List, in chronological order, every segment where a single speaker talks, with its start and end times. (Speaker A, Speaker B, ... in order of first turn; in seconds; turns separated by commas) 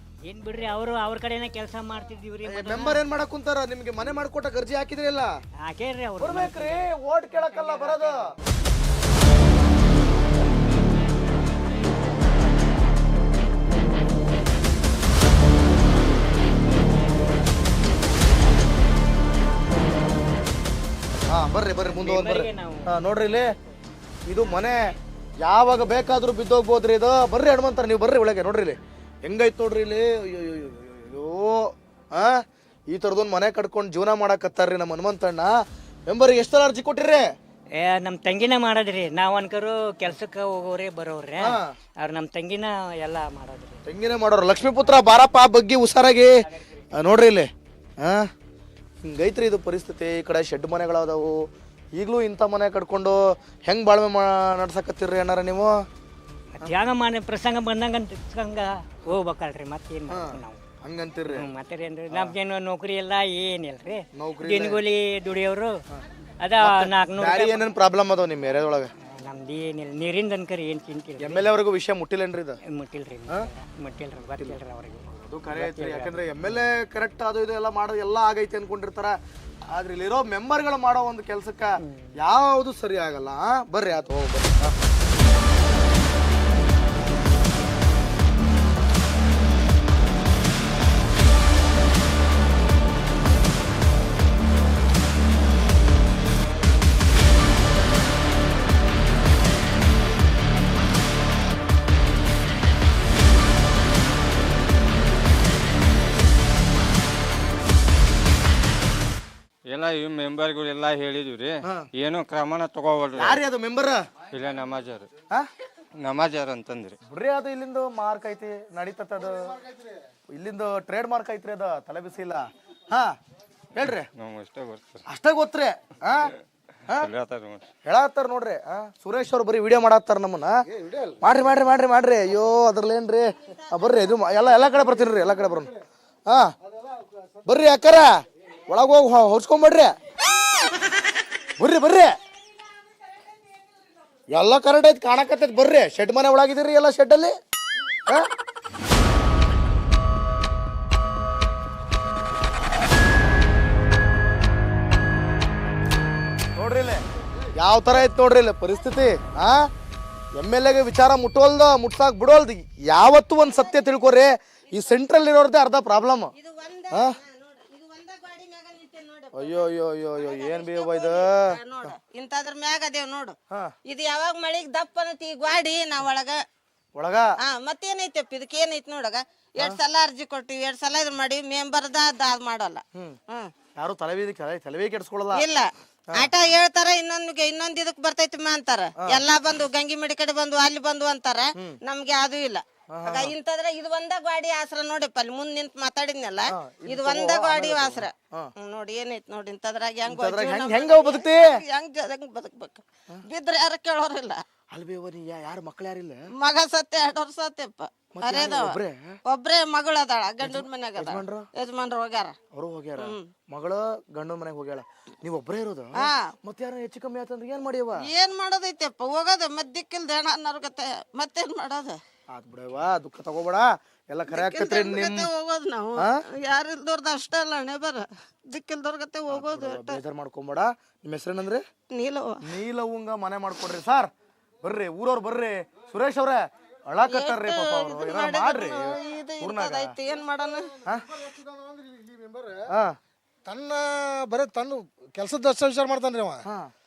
Speaker A: 0.3-3.0, Speaker B: 2.5-5.3, Speaker A: 5.7-8.1, Speaker B: 6.2-8.2, Speaker B: 21.3-23.5, Speaker A: 21.8-23.3, Speaker B: 24.2-24.8, Speaker B: 25.4-35.5, Speaker B: 36.1-37.2, Speaker A: 37.8-43.8, Speaker B: 41.4-41.7, Speaker B: 43.9-46.3, Speaker B: 47.0-47.5, Speaker B: 48.0-48.3, Speaker B: 49.0-51.4, Speaker B: 52.0-55.8, Speaker A: 56.6-60.6, Speaker B: 60.1-61.4, Speaker A: 61.3-65.8, Speaker B: 64.1-64.8, Speaker A: 66.4-67.6, Speaker B: 66.6-68.9, Speaker A: 69.1-71.5, Speaker B: 71.2-72.6, Speaker A: 72.7-76.6, Speaker B: 75.1-79.2, Speaker B: 79.7-84.7, Speaker C: 109.7-113.4, Speaker B: 111.6-111.9, Speaker B: 113.2-114.0, Speaker C: 114.3-115.1, Speaker C: 116.0-117.0, Speaker B: 117.0-119.5, Speaker D: 119.6-119.9, Speaker B: 120.3-123.1, Speaker B: 123.7-124.1, Speaker C: 124.2-125.0, Speaker B: 125.0-126.3, Speaker C: 126.9-127.6, Speaker B: 127.8-130.6, Speaker D: 130.7-131.2, Speaker B: 131.2-135.7, Speaker B: 137.4-138.1, Speaker B: 138.7-139.9, Speaker B: 141.6-142.1, Speaker B: 144.3-147.3, Speaker B: 156.6-157.0, Speaker B: 157.6-159.6, Speaker B: 160.3-166.3, Speaker E: 166.4-169.5, Speaker B: 166.9-167.2, Speaker B: 169.3-171.6, Speaker E: 170.2-176.4, Speaker B: 176.9-177.3, Speaker E: 177.4-183.5, Speaker B: 183.8-185.4, Speaker E: 185.3-204.4, Speaker B: 192.9-193.3, Speaker B: 196.5-198.5, Speaker B: 200.1-201.5, Speaker B: 204.7-206.2, Speaker E: 206.4-208.7, Speaker B: 208.1-209.2, Speaker E: 209.2-212.4, Speaker B: 210.4-211.5, Speaker B: 212.5-218.1, Speaker E: 213.0-213.3, Speaker E: 216.0-216.3, Speaker E: 218.1-222.0, Speaker B: 222.3-225.3, Speaker E: 224.4-230.0, Speaker B: 229.3-231.6, Speaker E: 231.9-232.4, Speaker B: 232.4-234.1, Speaker B: 234.6-239.9, Speaker E: 237.1-240.7, Speaker D: 240.9-242.6, Speaker D: 243.4-246.4